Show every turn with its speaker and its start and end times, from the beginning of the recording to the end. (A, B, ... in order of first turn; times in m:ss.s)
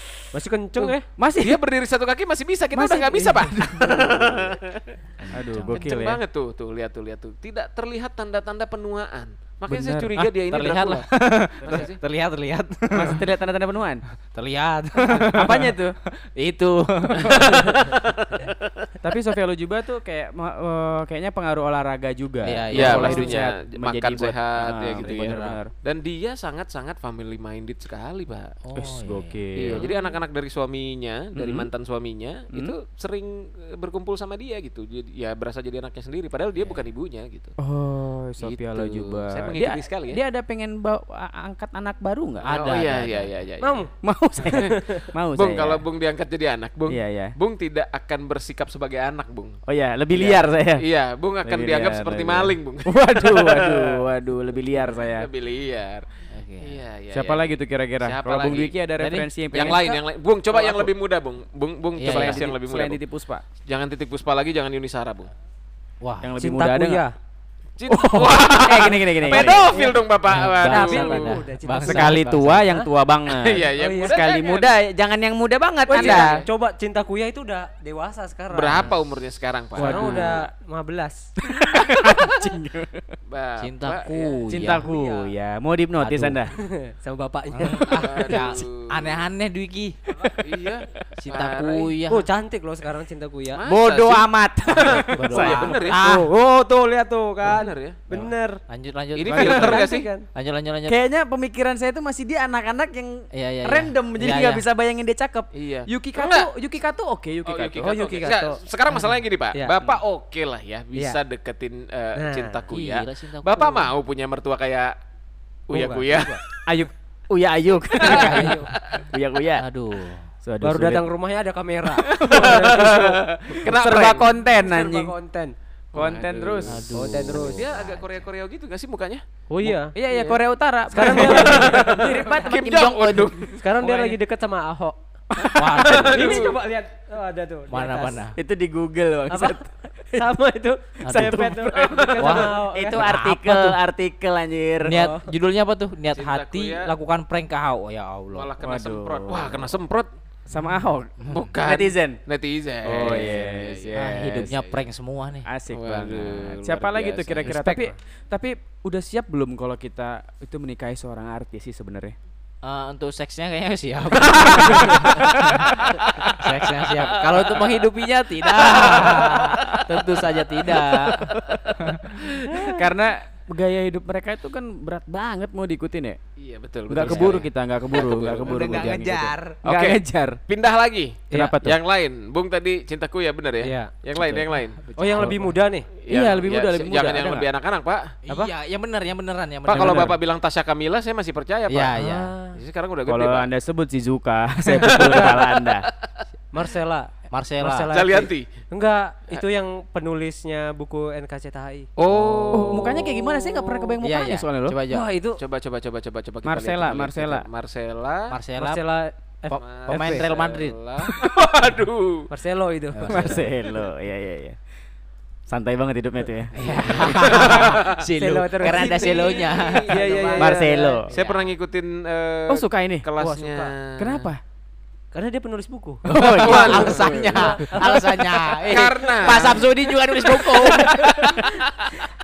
0:00.3-0:01.1 A
0:00.8-0:05.0 B
0:01.2-0:01.6 C
0:02.7-0:04.0 C
0:04.0-0:04.2 A
0:05.2-0:05.8 D
0:05.3-0:06.2 C
0:05.7-0:11.1 B
0:09.7-0:10.1 C
0:10.5-0:13.2 D
0:11.6-0:12.0 B
0:12.9-0:14.0 C
0:14.3-0:15.8 D
0:15.2-0:15.9 C
0:16.4-0:18.0 D
0:17.3-0:18.0 B
0:19.0-0:25.7 C
0:22.4-0:23.4 D
0:22.7-0:28.5 B
0:25.0-0:25.6 D
0:28.6-0:29.9 D
0:28.8-0:29.9 C
0:29.6-0:37.6 B
0:31.4-0:31.7 C
0:36.6-0:36.9 D
0:37.6-0:42.5 C
0:38.4-0:40.2 B
0:42.4-0:43.4 D
0:42.5-0:43.9 B
0:43.6-0:43.9 A
0:44.0-0:45.8 C
0:44.5-0:45.1 A
0:45.3-0:49.6 B
0:46.9-0:47.3 C
0:49.7-0:50.8 C
0:50.1-0:54.1 B
0:51.4-0:55.3 C
0:54.8-0:56.1 B
0:56.3-0:56.8 D
0:56.6-0:58.8 B
0:57.1-1:00.0 C
0:59.0-0:59.3 D
0:59.5-1:03.0 B
1:00.6-1:00.9 C
1:02.0-1:02.5 D
1:02.1-1:03.4 C
1:03.6-1:05.3 B
1:06.0-1:06.3 D
1:06.2-1:07.0 C
1:06.4-1:07.1 A
1:07.8-1:11.4 B
1:07.9-1:09.7 C
1:09.2-1:10.0 A
1:10.3-1:12.6 D
1:10.6-1:12.9 A
1:10.6-1:16.4 C
1:13.3-1:14.7 B
1:13.8-1:14.2 A
1:15.9-1:19.0 A
1:15.9-1:16.5 B
1:18.5-1:20.5 B
1:19.8-1:20.3 C
1:19.8-1:21.3 A
1:21.5-1:23.0 C
1:23.3-1:24.4 B
1:23.6-1:24.9 D
1:24.5-1:26.5 C
1:24.6-1:25.3 A
1:26.0-1:26.4 D
1:26.5-1:28.4 A
1:27.5-1:30.0 D
1:27.8-1:29.2 B
1:30.4-1:31.9 B
1:31.2-1:32.3 D
1:32.1-1:33.6 A
1:33.5-1:36.0 B
1:33.7-1:36.3 C
1:35.2-1:36.3 D
1:36.8-1:38.6 A
1:37.4-1:38.0 B
1:38.7-1:39.8 D
1:39.2-1:40.1 B
1:39.3-1:39.8 C
1:39.4-1:40.3 A
1:40.3-1:41.0 D
1:40.9-1:47.8 C
1:43.3-1:44.6 D
1:45.5-1:46.5 B
1:47.5-1:54.9 B
1:47.8-1:48.6 A
1:50.9-1:51.2 A
1:52.2-1:52.7 A
1:52.7-1:53.9 D
1:55.7-1:56.4 B
1:55.7-1:56.4 A
1:56.6-1:59.6 C
1:58.0-1:59.1 B
1:58.0-1:58.7 A
1:59.6-2:00.3 D
2:00.4-2:01.1 C
2:00.6-2:03.2 A
2:02.0-2:04.3 B
2:02.3-2:02.9 C
2:03.6-2:05.1 C
2:04.4-2:05.5 A
2:05.9-2:06.8 C
2:05.9-2:09.2 B
2:06.6-2:08.3 D
2:06.9-2:07.7 A
2:09.5-2:09.9 A
2:09.6-2:14.1 C
2:10.1-2:10.4 B
2:10.9-2:12.6 A
2:11.0-2:13.7 B
2:13.6-2:15.0 A
2:15.4-2:16.1 C
2:15.6-2:16.4 D
2:15.9-2:16.5 B
2:16.1-2:18.2 A
2:17.7-2:18.4 D
2:18.4-2:20.2 C
2:19.3-2:19.6 A
2:20.1-2:23.0 A
2:21.0-2:21.4 D
2:21.1-2:25.0 C
2:21.8-2:22.4 B
2:22.2-2:23.8 D
2:24.8-2:28.5 D
2:24.9-2:25.3 A
2:26.1-2:26.9 B
2:28.3-2:30.1 B
2:28.6-2:29.7 C
2:30.5-2:32.2 C
2:31.3-2:34.8 B
2:32.9-2:34.5 C
2:32.9-2:33.3 D
2:33.9-2:35.5 D
2:35.5-2:42.2 C
2:35.7-2:37.6 B
2:37.4-2:37.8 D
2:42.6-2:52.1 D
2:44.8-2:45.5 C
2:45.8-2:46.3 B
2:48.6-2:49.6 B
2:48.6-2:49.8 C
2:51.3-2:51.6 C
2:52.5-2:56.2 C
2:56.4-2:58.9 B
2:56.9-3:00.4 C
2:57.0-2:57.4 D
2:58.4-2:59.6 D
2:59.6-3:04.8 B
3:01.3-3:01.8 C
3:03.6-3:03.9 A
3:04.2-3:04.4 C
3:04.9-3:05.5 D
3:05.0-3:05.9 A
3:06.0-3:08.2 B
3:06.1-3:07.5 C
3:08.2-3:10.1 D
3:09.6-3:12.0 B
3:09.7-3:10.2 C
3:11.7-3:12.3 D
3:12.0-3:12.6 A
3:12.5-3:13.5 B
3:13.1-3:15.9 C
3:14.9-3:15.6 B
3:16.5-3:21.9 A
3:17.3-3:17.9 D
3:17.9-3:18.5 B
3:22.0-3:23.9 B
3:22.1-3:22.7 D
3:22.5-3:24.8 C
3:24.0-3:25.1 D
3:24.9-3:25.4 A
3:25.4-3:28.3 B
3:26.4-3:27.5 C
3:28.3-3:28.8 D
3:28.6-3:30.2 A
3:29.5-3:31.1 D
3:29.5-3:32.3 B
3:32.3-3:33.4 A
3:32.9-3:33.5 D
3:33.1-3:34.6 C
3:35.5-3:37.4 C
3:36.6-3:40.2 D
3:36.6-3:41.0 A
3:37.2-3:37.9 B
3:38.6-3:44.3 B
3:40.4-3:41.1 C
3:41.1-3:41.5 D
3:42.5-3:43.1 C
3:43.2-3:43.7 A
3:44.0-3:44.4 C
3:45.1-3:49.4 A
3:46.1-3:51.4 D
3:46.1-3:47.2 C
3:46.4-3:47.3 B
3:48.7-3:49.7 B
3:50.6-3:51.4 C